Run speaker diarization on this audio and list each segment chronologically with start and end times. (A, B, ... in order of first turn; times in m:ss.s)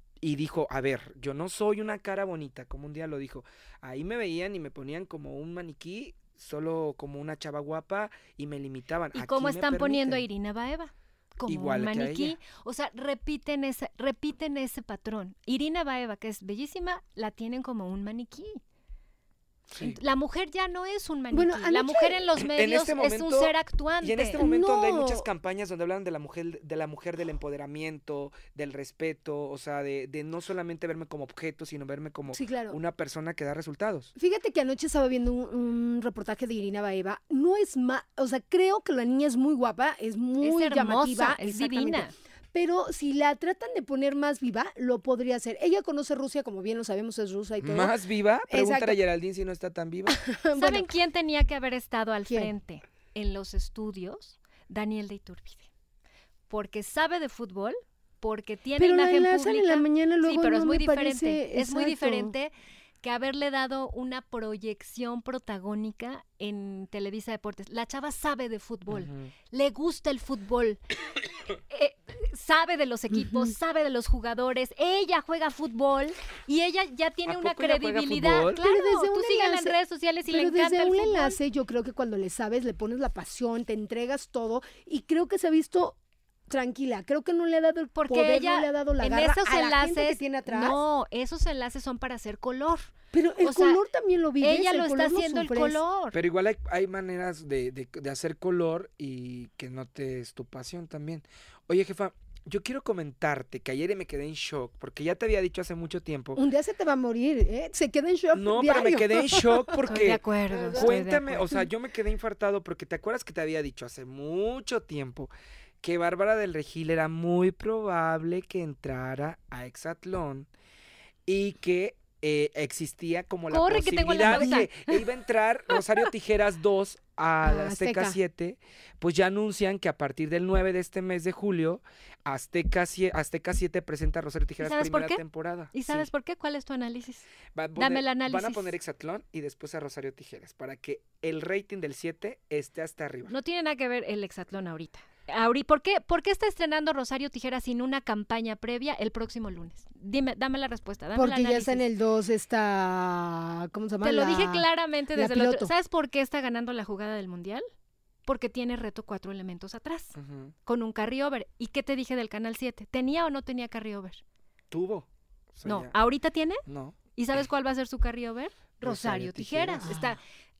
0:00.2-0:10.2 A
0:09.1-0:18.6 B
0:11.5-0:12.4 A
0:19.7-0:20.0 A
0:19.8-0:24.4 B
0:21.3-0:22.2 C
0:22.4-0:34.1 A
0:24.4-0:25.3 C
0:32.3-0:32.8 C
0:34.2-0:49.0 C
0:40.4-0:42.1 B
0:47.6-0:50.2 A
0:50.2-0:50.9 C
0:50.6-0:55.7 B
0:56.5-1:10.8 B
0:58.8-1:02.3 C
1:08.9-1:09.3 A
1:11.7-1:21.4 B
1:13.2-1:13.5 C
1:17.2-1:18.6 A
1:18.6-1:19.8 C
1:20.3-1:26.0 C
1:26.5-1:30.8 C
1:28.0-1:32.9 B
1:33.1-1:35.8 C
1:33.4-1:33.8 B
1:34.4-1:36.2 B
1:36.1-1:46.4 A
1:46.4-1:49.8 C
1:48.3-1:55.3 A
1:49.8-1:51.5 B
1:50.5-1:51.6 C
1:55.8-2:00.5 A
2:01.3-2:16.1 A
2:03.5-2:05.1 B
2:04.3-2:04.6 C
2:05.7-2:06.0 B
2:07.4-2:08.2 C
2:14.6-2:18.8 B
2:17.5-2:23.3 A
2:23.3-2:31.8 B
2:31.2-2:35.7 C
2:34.0-2:37.7 B
2:38.3-2:40.2 B
2:40.2-2:40.5 A
2:40.7-2:44.2 B
2:44.7-2:46.0 A
2:45.6-2:50.2 B
2:46.7-2:47.0 A
2:48.8-2:49.9 A